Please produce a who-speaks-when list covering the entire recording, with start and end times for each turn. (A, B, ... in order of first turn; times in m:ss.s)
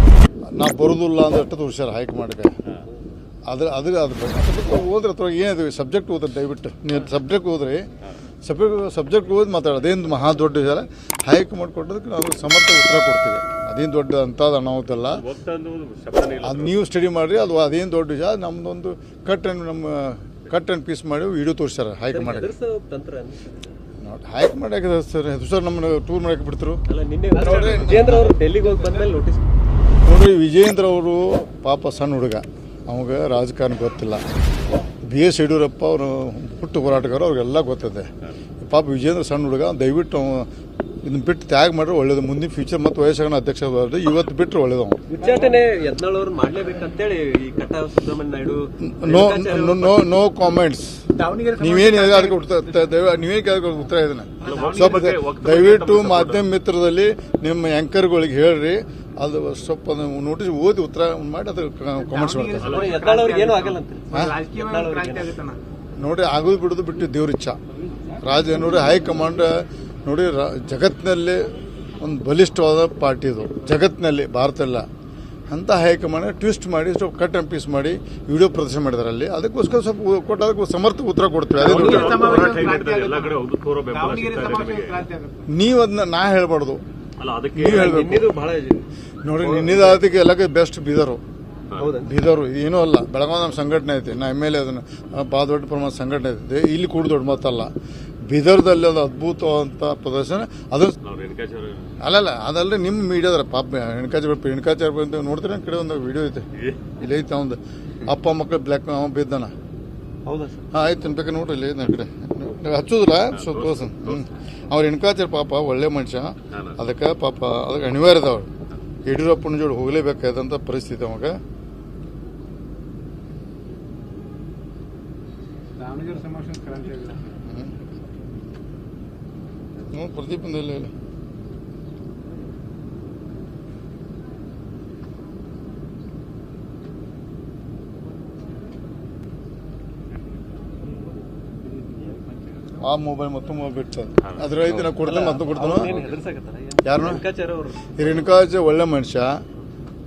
0:00.5-0:02.6 A
0:03.5-0:07.9 A
0:08.4-0:15.2 A
0:15.1-0:16.7 B
0:16.4-0:22.5 A
0:22.1-0:23.7 C
0:24.0-0:26.8 A
0:26.9-0:29.4 C
0:27.3-0:29.1 D
0:27.4-0:28.3 A
0:30.0-0:34.2 A
0:35.1-0:38.1 A
0:38.6-0:40.5 A
0:41.0-0:45.0 A
0:45.1-0:50.1 C
0:45.2-0:45.5 D
0:48.8-0:51.0 A
0:51.2-0:52.9 D
0:51.6-1:02.9 A
0:54.4-0:55.1 D
0:54.4-0:56.5 B
1:02.0-1:05.6 D
1:02.6-1:03.0 B
1:02.7-1:05.3 C
1:06.0-1:07.6 A
1:08.2-1:14.9 A
1:15.5-1:22.4 A
1:21.5-1:25.0 B
1:21.6-1:23.4 D
1:21.7-1:22.6 C
1:23.9-1:25.5 D
1:25.5-1:26.8 A
1:27.2-1:27.9 B
1:27.6-1:28.3 A
1:27.6-1:28.8 C
1:29.2-1:31.2 A
1:29.4-1:30.0 C
1:31.8-1:32.1 C
1:32.0-1:37.7 A
1:38.3-1:41.0 A
1:41.0-1:41.9 B
1:42.0-1:46.5 A
1:46.5-1:46.8 B
1:47.0-1:49.5 A
1:50.2-1:50.6 C
1:50.7-1:58.5 A
1:53.3-1:54.2 B
1:56.5-1:56.8 B
1:59.0-2:01.4 A
2:05.8-2:07.2 D
2:07.4-2:07.7 A
2:09.9-2:10.9 A
2:22.8-2:26.0 A
2:24.2-2:25.0 B
2:25.0-2:28.1 C
2:25.7-2:26.1 B
2:26.8-2:27.2 A
2:28.0-2:29.4 A